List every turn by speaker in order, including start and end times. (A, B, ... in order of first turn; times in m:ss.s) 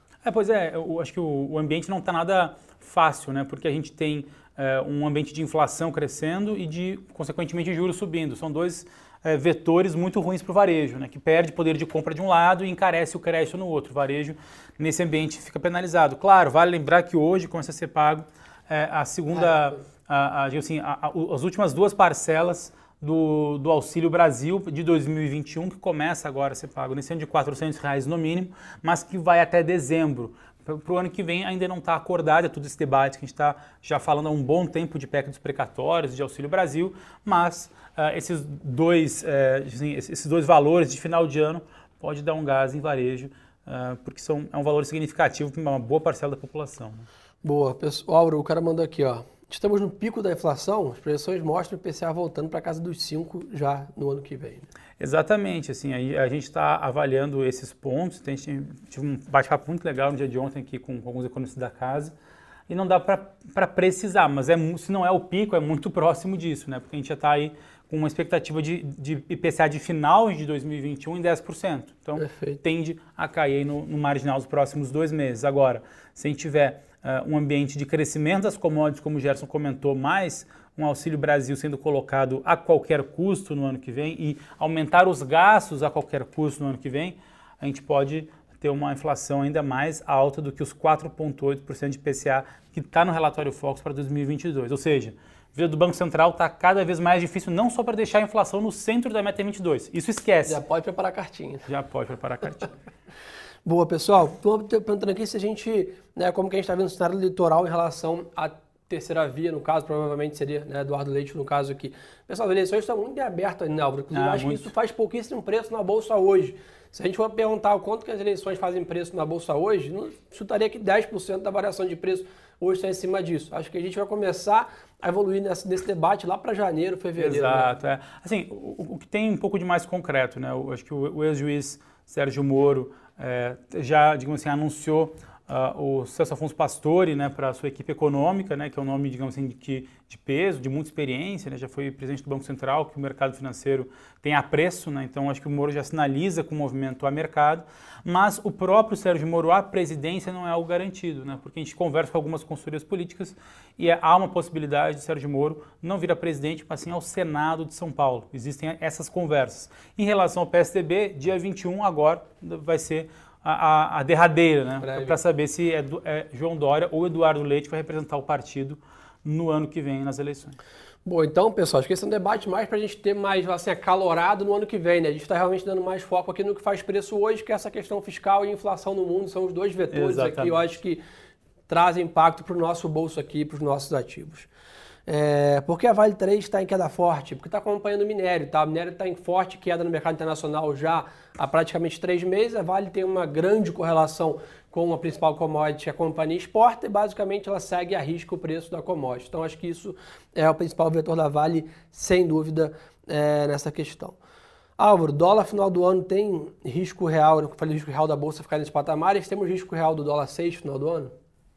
0:00.2-0:47.0 A
0:47.4-0:54.7 B
0:55.0-1:02.1 A
1:02.7-1:40.6 A
1:12.2-1:12.6 B
1:40.4-1:41.7 B
1:41.7-1:42.7 A
1:43.6-2:07.7 B
1:54.1-1:54.7 A
2:07.2-2:50.6 A
2:44.8-2:45.2 B
2:51.0-3:01.0 B
2:59.9-3:00.6 A
3:01.7-3:04.5 B
3:05.1-3:24.2 B
3:24.8-3:31.1 B